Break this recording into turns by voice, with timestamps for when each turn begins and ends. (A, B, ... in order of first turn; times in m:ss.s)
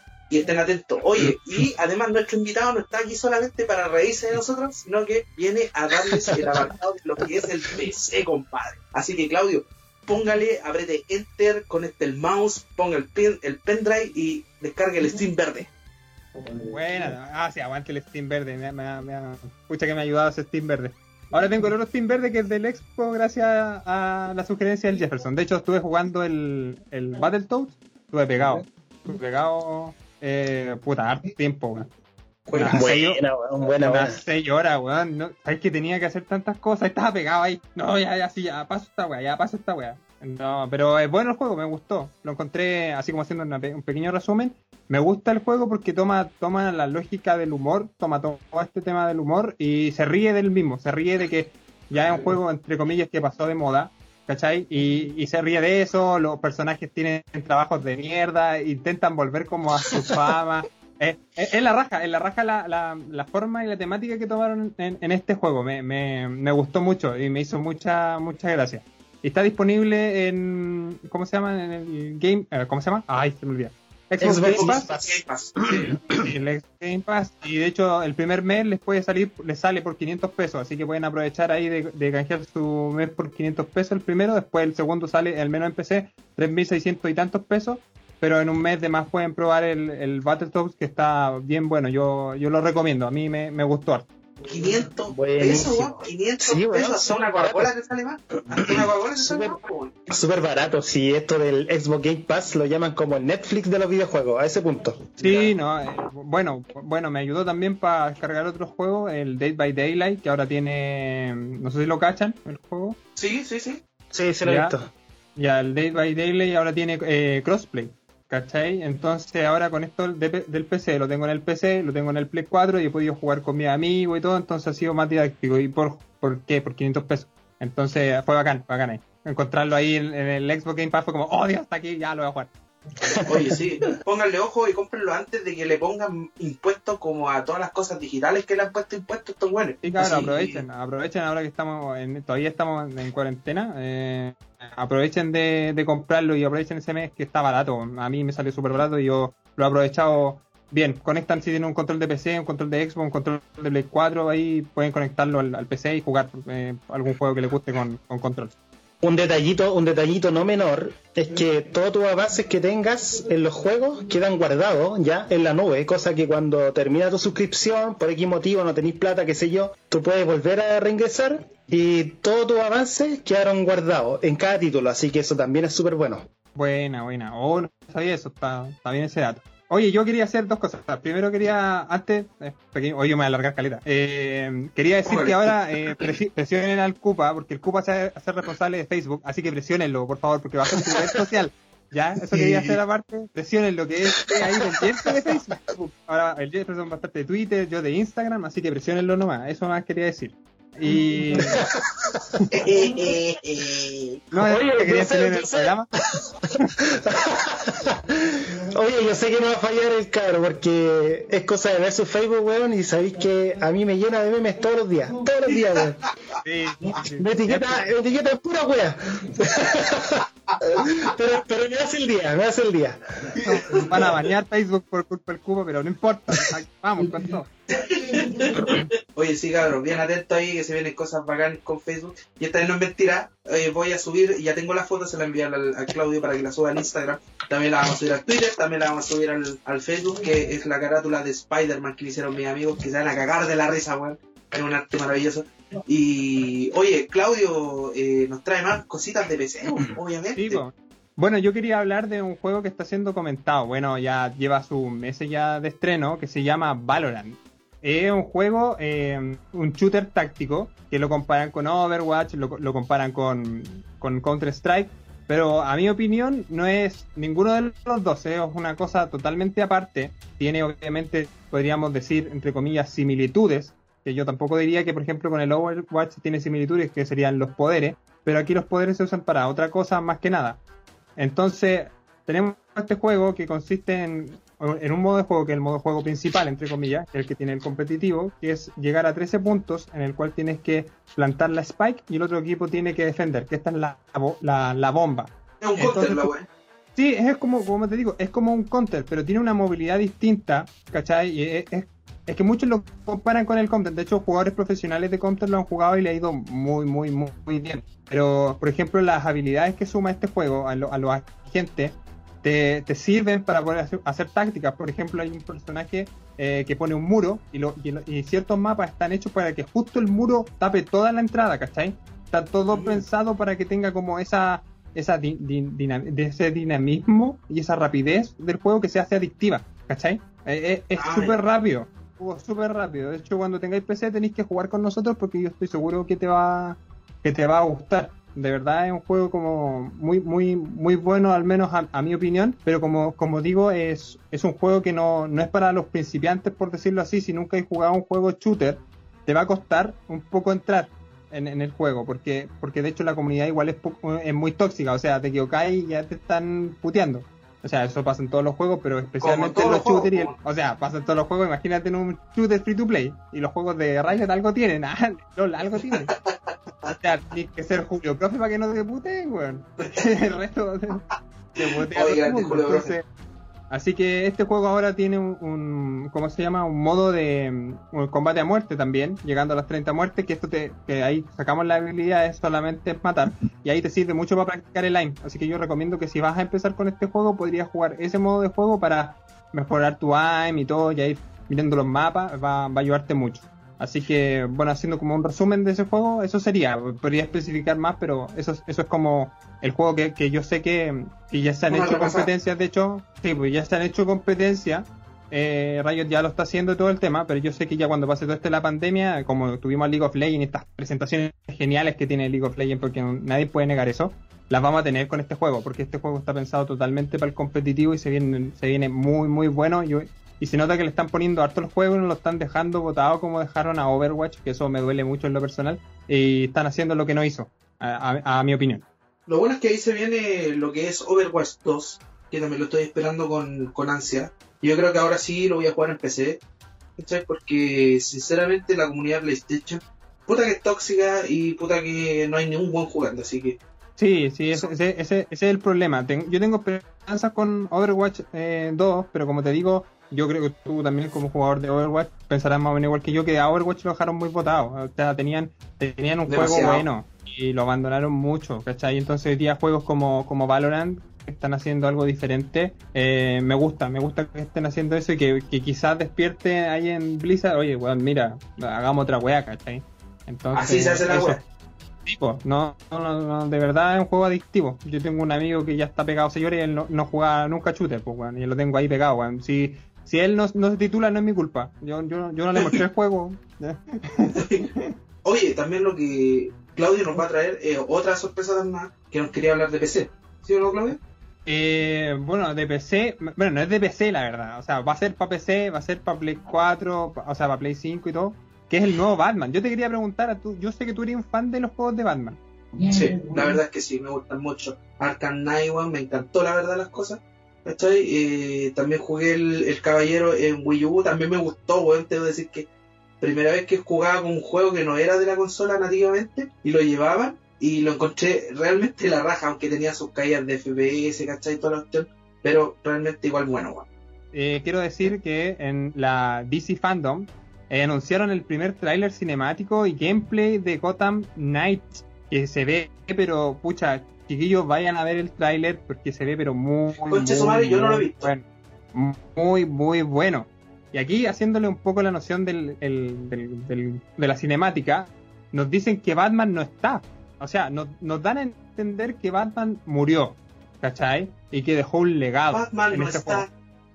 0:00.3-0:15.7 A
0:16.6-0:31.9 B
0:32.5-0:32.8 A
0:32.5-1:14.9 B
0:32.7-0:34.2 C
1:14.2-1:16.3 C
1:14.4-1:15.9 A
1:16.2-1:34.1 B
1:34.4-1:40.2 A
1:35.1-1:37.7 C
1:38.6-1:39.6 C
1:40.1-1:45.4 C
1:45.2-1:53.0 B
1:45.2-1:45.5 A
1:53.2-1:53.8 A
1:54.1-1:54.9 C
1:54.4-1:54.8 B
1:55.4-2:12.5 B
2:13.2-2:20.6 A
2:19.8-2:38.5 B
2:39.0-2:56.3 C
2:56.5-3:21.6 B
3:05.0-3:06.0 A
3:10.7-3:11.2 C
3:12.3-3:12.7 C
3:14.3-3:15.4 C
3:21.4-3:22.3 C
3:22.5-3:24.2 A
3:24.3-3:36.0 C
3:24.3-3:25.9 B
3:36.4-3:37.8 B
3:37.2-3:43.0 C
3:40.5-3:40.9 A
3:43.4-3:44.2 A
3:43.4-3:47.5 B
3:47.7-4:10.6 A
3:48.2-3:48.8 C
4:10.4-4:40.6 B
4:41.2-4:56.3 B
4:55.6-4:56.5 A
4:57.0-6:06.1 B
5:22.7-5:23.0 A
5:30.9-5:31.4 A
5:59.2-6:00.3 A
6:06.0-6:06.9 A
6:06.9-6:13.0 B
6:11.6-6:12.9 A
6:13.7-7:08.8 B
6:41.7-6:42.3 A
7:09.3-7:16.4 A
7:17.0-7:23.6 A
7:24.0-7:51.4 B
7:36.3-7:36.9 A
7:50.5-7:51.4 A
7:52.0-8:04.9 B
8:04.3-8:04.7 A
8:05.2-8:11.0 A
8:11.4-8:22.4 B
8:22.8-8:32.7 A
8:33.2-8:43.9 A
8:44.3-9:13.4 B
8:57.1-8:58.3 A
9:12.5-9:13.5 A